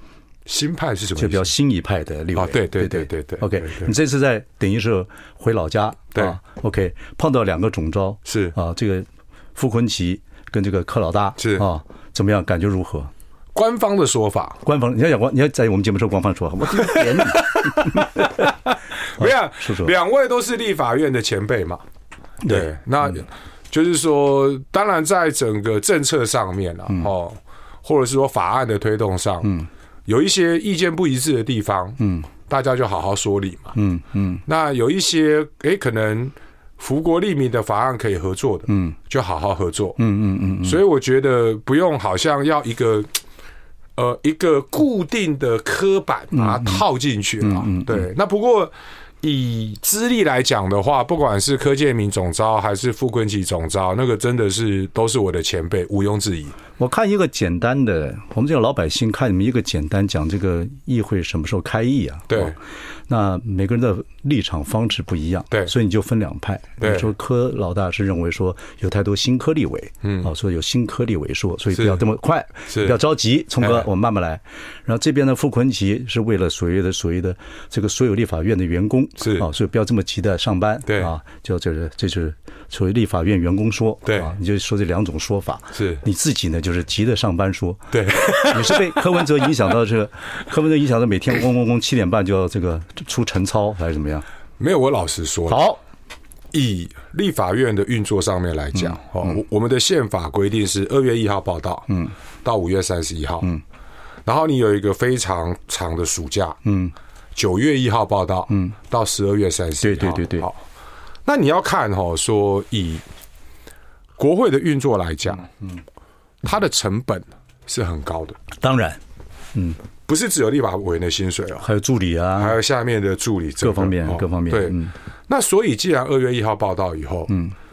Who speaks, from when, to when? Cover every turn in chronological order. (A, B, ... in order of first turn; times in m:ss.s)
0:00.5-0:01.5 A
0:01.2-0:13.1 B
0:02.4-0:03.9 A
0:08.3-0:08.6 A
0:11.4-0:11.7 A
0:13.6-0:14.6 A
0:14.6-0:18.4 B
0:16.8-0:21.8 A
0:19.2-0:19.9 B
0:22.4-0:22.7 B
0:22.4-0:33.8 A
0:32.0-0:32.3 B
0:33.8-0:34.4 B
0:34.5-0:40.0 A
0:38.7-0:39.0 B
0:40.0-0:40.8 B
0:40.6-0:43.1 A
0:44.0-0:56.6 A
0:46.3-0:46.8 B
0:47.4-0:48.1 B
0:56.8-1:02.6 B
1:02.3-1:02.6 A
1:03.1-1:34.2 B
1:06.8-1:07.1 A
1:10.0-1:10.3 A
1:11.7-1:12.0 A
1:12.7-1:13.0 A
1:13.6-1:13.9 A
1:19.2-1:19.5 A
1:24.0-1:24.3 A
1:25.8-1:26.0 A
1:27.9-1:28.9 A
1:34.6-1:35.7 A
1:35.5-1:35.8 B
1:36.5-1:43.5 A
1:38.8-1:39.3 B
1:44.3-1:46.6 A
1:46.6-1:46.9 B
1:47.4-1:50.6 A
1:49.8-1:50.5 B
1:51.3-1:53.0 A
1:54.2-1:55.5 A
1:56.4-1:58.4 A
1:58.6-1:59.0 B
1:59.5-1:59.8 B
2:00.1-2:01.7 A
2:01.6-2:02.6 B
2:02.4-2:07.3 A
2:03.6-2:04.9 B